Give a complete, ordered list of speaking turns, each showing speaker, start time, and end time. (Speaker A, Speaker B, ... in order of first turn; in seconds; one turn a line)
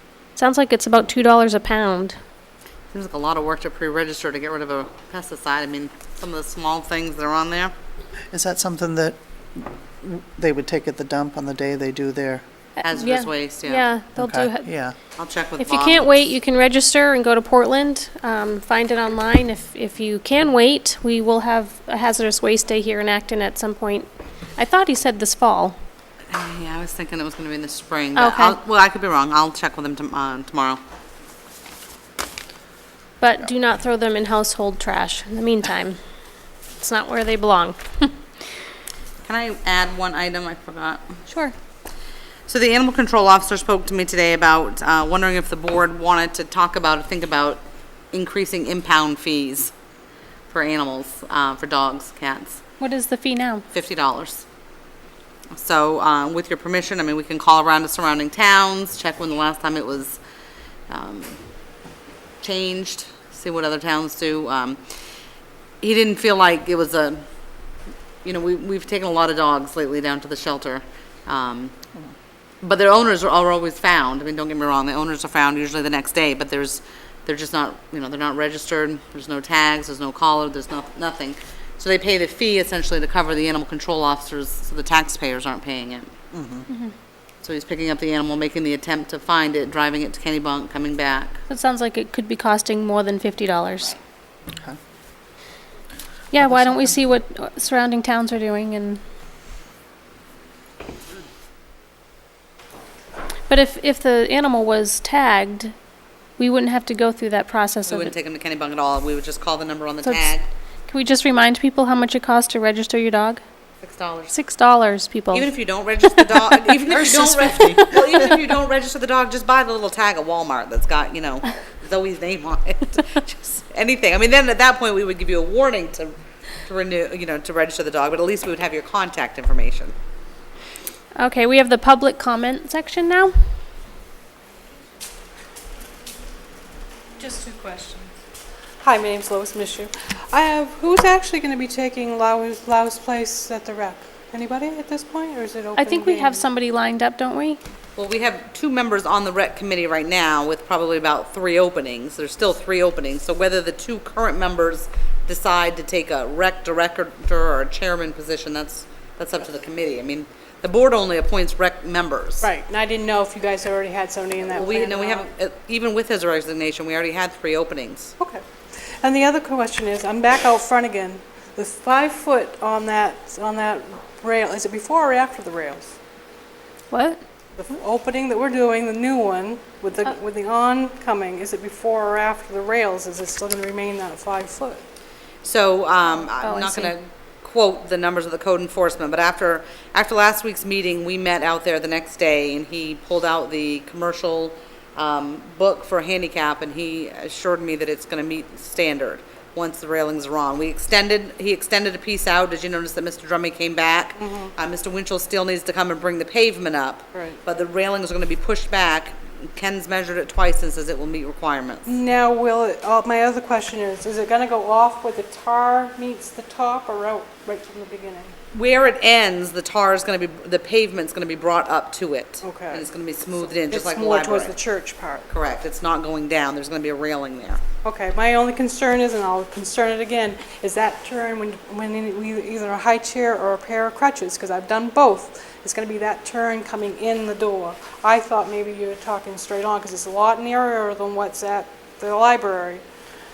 Speaker A: 0.3-2.2
Speaker B: 2.9-7.7
Speaker C: 8.3-12.4
Speaker B: 12.8-13.8
Speaker A: 12.8-14.7
Speaker C: 14.2-14.9
Speaker B: 15.2-16.2
Speaker A: 15.6-25.8
Speaker B: 26.3-30.8
Speaker A: 28.1-28.6
Speaker A: 33.2-36.0
Speaker A: 36.8-38.1
Speaker B: 39.2-41.0
Speaker A: 41.3-41.5
Speaker B: 42.5-49.7
Speaker B: 50.5-52.6
Speaker A: 52.8-53.6
Speaker B: 53.7-54.4
Speaker B: 55.5-60.2
Speaker B: 60.9-61.4
Speaker B: 62.4-64.8
Speaker B: 65.8-67.2
Speaker B: 68.2-71.8
Speaker B: 72.6-86.1
Speaker C: 86.3-86.7
Speaker A: 86.7-86.9
Speaker B: 87.4-91.4
Speaker A: 91.5-94.0
Speaker A: 96.3-99.0
Speaker C: 96.4-96.8
Speaker A: 103.5-105.7
Speaker A: 106.4-108.1
Speaker B: 107.8-110.5
Speaker A: 110.0-110.3
Speaker A: 110.9-113.4
Speaker B: 113.8-114.3
Speaker A: 114.3-115.5
Speaker B: 115.3-126.1
Speaker C: 116.9-117.9
Speaker B: 126.7-129.9
Speaker A: 131.2-133.3
Speaker D: 137.2-138.1
Speaker D: 138.8-146.4
Speaker A: 145.8-147.6
Speaker B: 147.9-162.4
Speaker D: 162.4-165.2
Speaker B: 164.5-168.1
Speaker D: 169.0-175.9
Speaker A: 176.9-177.2
Speaker D: 177.6-184.8
Speaker B: 185.4-212.0
Speaker A: 186.2-186.9
Speaker D: 204.2-204.5
Speaker D: 211.8-218.3
Speaker B: 218.5-224.6
Speaker D: 222.4-222.8
Speaker D: 223.4-225.3
Speaker B: 225.3-227.6
Speaker D: 227.8-242.8